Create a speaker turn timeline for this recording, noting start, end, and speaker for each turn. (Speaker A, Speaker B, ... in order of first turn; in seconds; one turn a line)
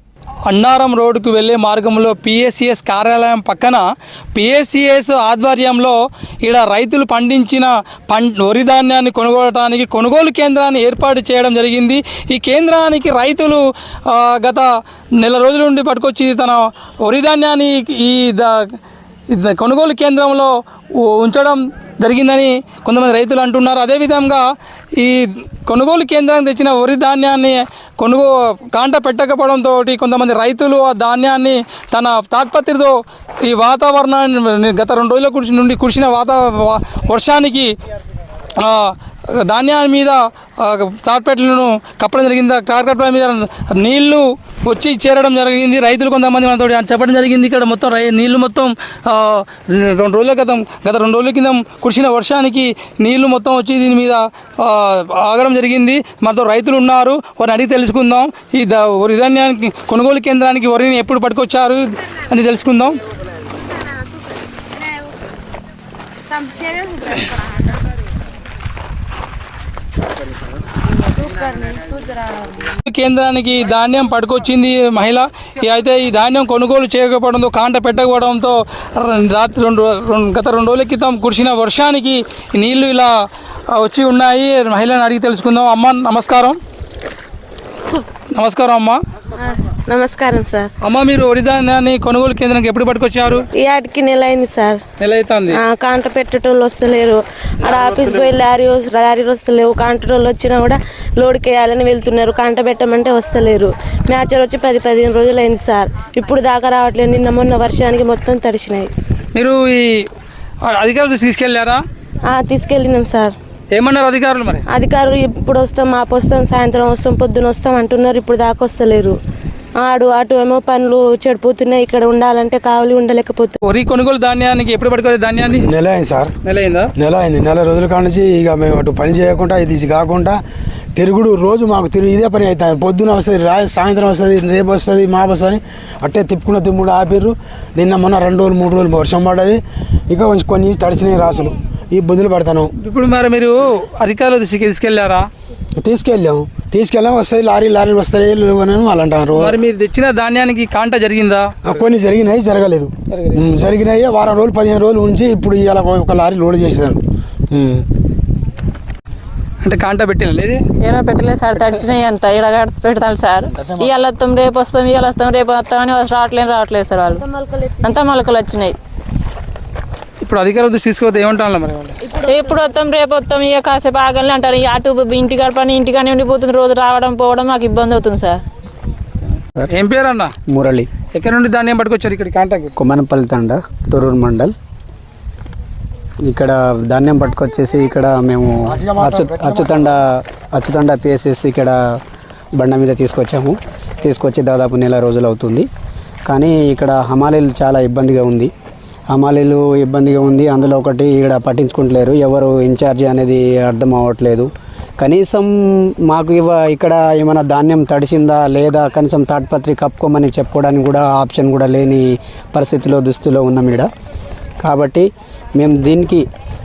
Speaker A: 0.5-3.8
Speaker A: 4.3-14.7
Speaker A: 15.2-18.7
Speaker A: 19.3-24.4
Speaker A: 25.0-37.7
Speaker A: 38.6-63.0
Speaker B: 66.4-67.0
Speaker B: 71.2-72.4
Speaker A: 72.9-83.1
Speaker A: 83.7-86.6
Speaker A: 88.3-89.0
Speaker B: 89.4-90.7
Speaker A: 90.8-93.5
Speaker B: 93.6-94.8
Speaker A: 95.0-95.6
Speaker B: 95.5-108.9
Speaker A: 97.6-98.3
Speaker A: 109.3-110.1
Speaker A: 110.7-111.8
Speaker B: 112.3-113.3
Speaker A: 113.7-114.6
Speaker B: 114.7-119.2
Speaker B: 119.8-123.6
Speaker A: 123.6-125.7
Speaker C: 125.6-126.3
Speaker A: 126.4-126.9
Speaker C: 127.0-130.4
Speaker C: 130.9-142.7
Speaker A: 142.8-145.3
Speaker C: 145.8-149.6
Speaker A: 149.3-151.8
Speaker C: 151.7-157.0
Speaker A: 153.1-153.5
Speaker C: 157.5-157.8
Speaker A: 159.6-160.7
Speaker D: 160.8-167.2
Speaker A: 161.6-161.9
Speaker B: 167.1-168.1
Speaker D: 167.8-168.8
Speaker A: 170.2-172.0
Speaker B: 172.1-172.8
Speaker D: 172.3-178.4
Speaker A: 179.7-180.3
Speaker E: 180.5-180.9
Speaker A: 181.1-182.8
Speaker E: 182.8-184.5
Speaker E: 186.2-191.8
Speaker C: 188.8-189.7
Speaker E: 192.6-195.7
Speaker E: 196.3-198.5
Speaker E: 199.1-204.5
Speaker E: 205.0-213.9
Speaker E: 214.6-216.2